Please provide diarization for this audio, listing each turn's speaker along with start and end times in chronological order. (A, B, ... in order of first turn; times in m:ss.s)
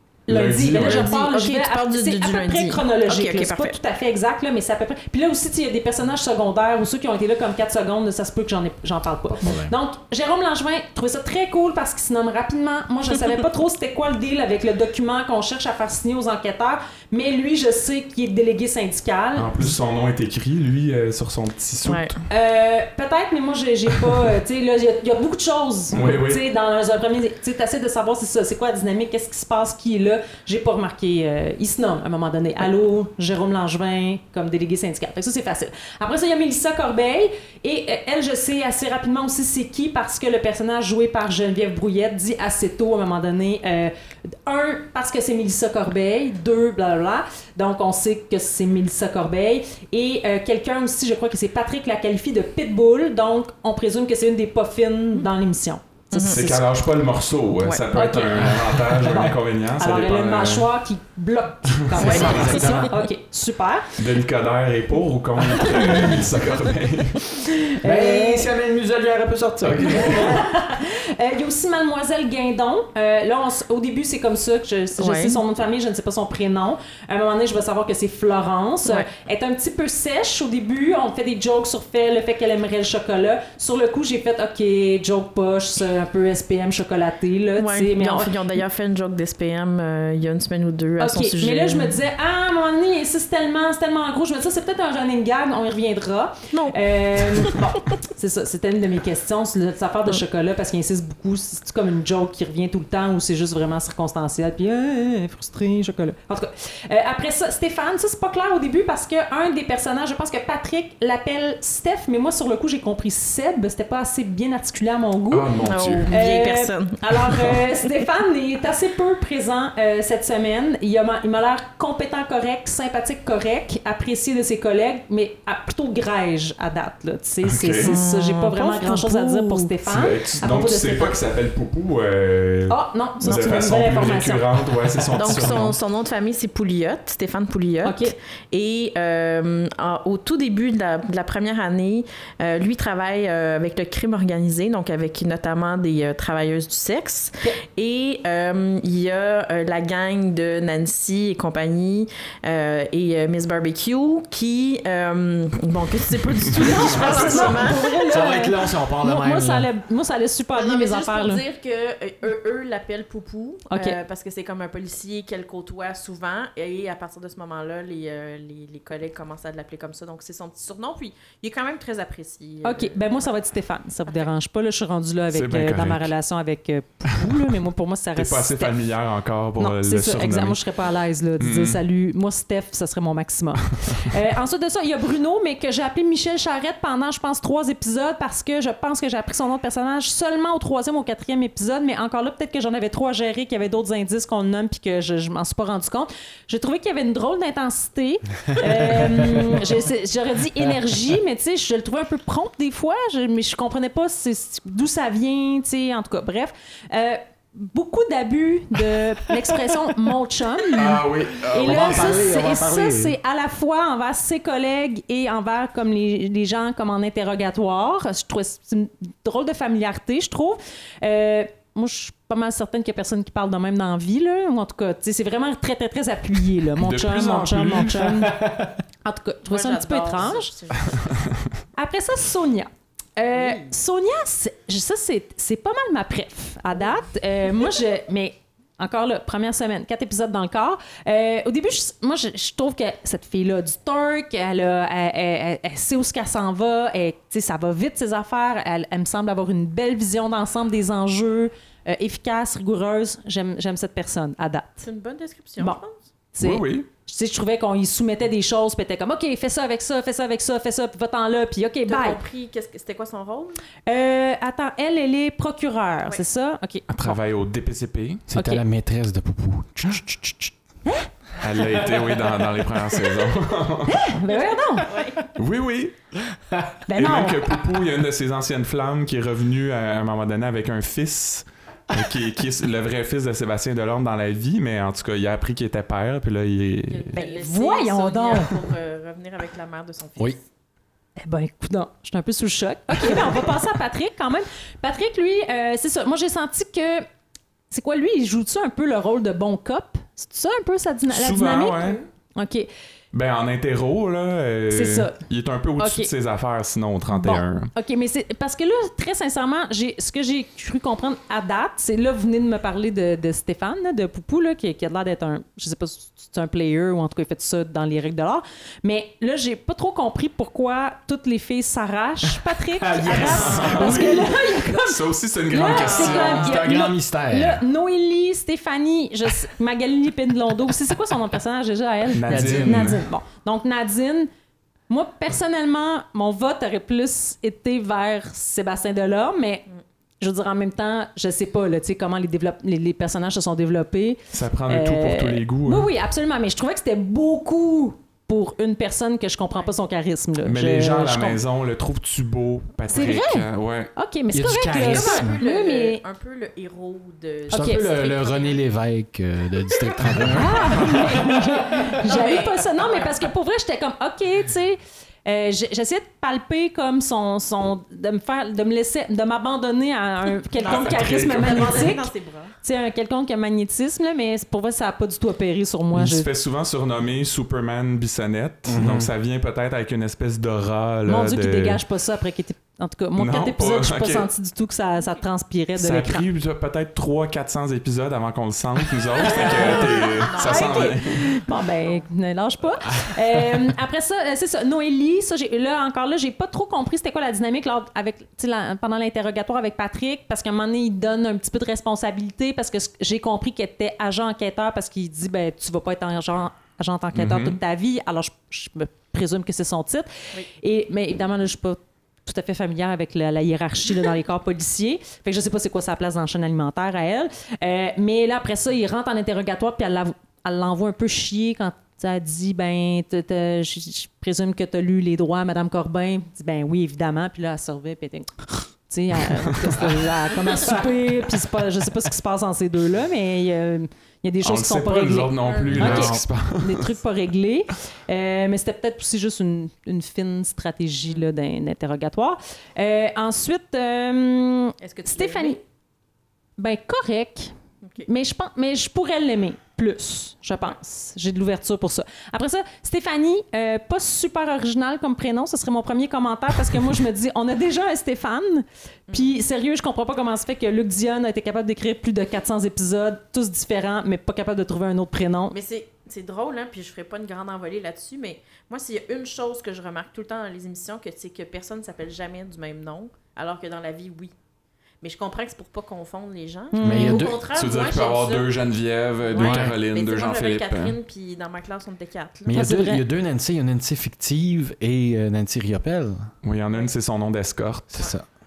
0:00.3-0:19.5 A
0:00.3-0:01.1 B
0:00.9-0:03.8 C
0:09.3-0:09.7 D
0:19.4-0:22.2 B
0:21.8-0:22.1 C
0:22.3-0:43.9 A
0:25.9-0:26.4 B
0:44.4-0:55.9 A
0:56.1-0:56.6 C
0:56.1-1:00.7 B
0:57.6-0:58.5 C
0:58.3-0:59.3 D
0:59.8-1:03.9 A
1:01.9-1:02.6 B
1:02.0-1:03.0 D
1:02.0-1:02.7 C
1:04.0-1:07.3 B
1:05.9-1:06.2 D
1:07.8-1:08.5 A
1:07.8-1:10.4 D
1:09.6-1:10.4 B
1:09.9-1:28.4 A
1:15.0-1:15.4 C
1:27.6-1:32.0 C
1:31.0-1:55.5 A
1:36.5-1:37.8 C
1:55.3-1:56.1 B
1:55.6-1:57.7 C
1:56.1-2:11.2 A
2:07.4-2:08.0 B
2:07.8-2:09.7 C
2:09.8-2:15.8 B
2:12.7-2:14.5 A
2:13.2-2:14.2 C
2:15.1-2:38.2 C
2:15.2-2:15.6 D
2:17.8-2:18.1 A
2:36.6-2:41.4 A
2:36.6-2:37.5 B
2:38.1-2:39.7 D
2:40.5-2:53.3 C
2:43.7-2:44.0 A
2:52.6-2:58.8 A
2:55.3-2:56.1 B
2:58.2-3:00.6 B
2:59.6-3:50.5 A
3:01.4-3:01.8 B
3:19.5-3:19.8 C
3:30.7-3:32.3 B
3:31.5-3:33.2 D
3:46.8-3:48.2 B
3:48.3-3:48.7 D
3:49.5-3:51.3 C
3:51.7-4:14.8 A
3:53.3-3:53.7 C
4:14.8-4:16.0 C
4:16.3-4:22.2 A
4:16.4-4:16.9 B
4:21.9-4:23.6 C
4:23.8-4:27.2 A
4:26.9-4:28.3 B
4:28.3-4:30.5 D
4:28.3-4:28.6 A
4:31.4-4:34.1 B
4:31.8-4:32.2 D
4:33.9-4:34.9 A
4:34.3-4:35.3 C
4:35.3-4:35.9 B
4:36.9-4:37.5 A
4:36.9-4:47.2 B
4:46.9-4:50.4 C
4:47.1-4:48.5 A
4:51.2-4:57.0 A
4:57.7-5:02.7 A
5:01.1-5:02.0 B
5:03.1-5:07.7 B
5:04.7-5:05.2 A
5:05.8-5:06.1 A
5:07.1-5:34.3 A
5:22.8-5:24.0 D
5:23.1-5:24.3 C
5:23.1-5:26.6 B
5:25.6-5:26.7 C
5:26.3-5:27.6 D
5:32.1-5:33.0 B
5:32.3-5:32.8 C
5:32.3-5:32.9 D
5:34.9-5:39.6 A
5:40.2-5:51.4 A
5:44.3-5:45.9 B
5:50.4-5:53.9 B
5:52.9-5:53.2 C
5:52.9-5:56.0 A
5:54.3-5:55.4 D
5:54.7-5:58.6 C
5:57.5-5:57.9 A
5:57.5-6:01.3 D
5:59.8-6:03.2 C
6:00.3-6:12.1 A
6:10.6-6:12.5 C
6:10.6-6:11.9 B
6:12.6-6:16.3 A
6:15.9-6:21.8 B
6:18.7-6:19.1 D
6:21.0-6:26.2 A
6:23.2-6:24.3 B
6:25.8-6:31.4 B
6:29.2-6:31.0 C
6:29.2-7:25.6 A
6:47.1-6:47.6 B
7:14.4-7:16.9 B
7:15.4-7:16.1 C
7:15.7-7:16.2 D
7:24.8-7:25.6 C
7:26.6-7:27.5 A
7:27.8-7:28.1 C
7:28.0-7:45.5 A
7:39.1-7:39.3 C
7:45.5-7:54.3 C
7:55.0-7:58.6 C
7:56.7-7:57.3 A
7:56.8-7:57.4 D
7:57.5-8:01.0 B
7:59.2-8:02.7 C
7:59.4-7:59.7 D
8:02.4-8:06.3 D
8:02.5-8:03.0 A
8:06.4-8:08.0 B
8:07.9-8:08.2 D